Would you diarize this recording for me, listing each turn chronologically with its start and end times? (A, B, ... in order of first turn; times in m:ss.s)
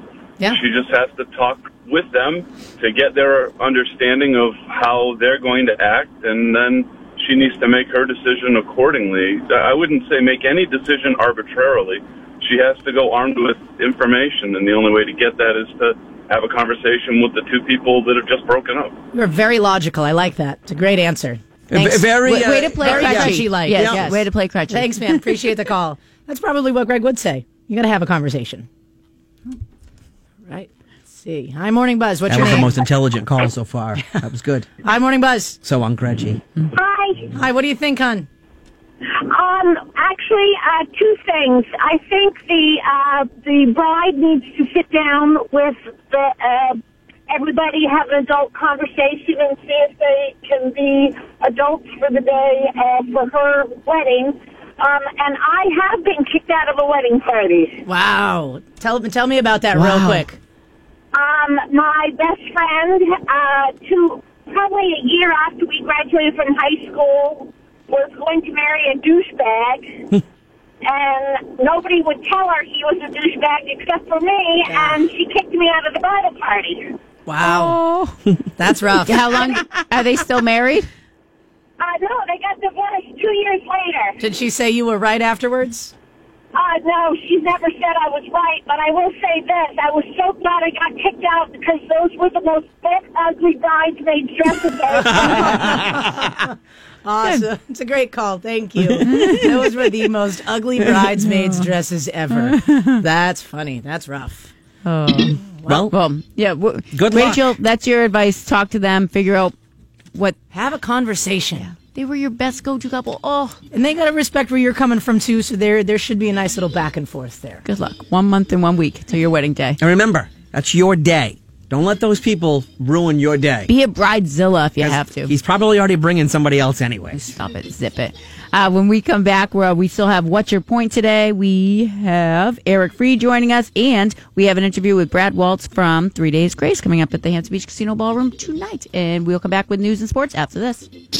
0:00.5-0:18.9 A
0:19.1-0:28.7 B
0:21.7-0:24.1 C
0:22.2-0:25.2 D
0:30.5-0:32.7 B
0:32.3-0:34.7 C
0:34.8-0:35.6 B
0:35.6-0:36.4 C
0:36.7-0:37.4 E
0:37.4-0:38.3 B
0:39.1-0:57.8 E
0:57.8-1:00.4 B
0:59.7-1:00.2 D
1:01.1-1:09.8 E
1:10.8-1:16.8 E
1:14.6-1:15.0 B
1:17.2-1:17.8 B
1:17.4-1:18.2 D
1:18.6-1:19.4 B
1:19.0-1:20.8 D
1:21.8-1:24.2 E
1:24.2-1:25.9 B
1:26.5-1:35.5 E
1:34.9-1:36.5 B
1:35.3-1:36.2 C
1:37.0-1:44.5 B
1:39.1-1:39.5 D
1:41.2-1:41.7 D
1:42.3-1:43.0 D
1:44.8-1:45.4 D
1:45.7-1:45.9 C
1:45.9-1:49.5 D
1:46.9-1:47.4 C
1:50.5-1:51.7 B
1:51.6-1:53.6 D
1:53.7-1:57.6 B
1:57.6-1:59.8 D
1:59.8-2:03.7 C
2:03.7-2:05.3 D
2:04.8-2:07.2 C
2:07.1-2:20.9 D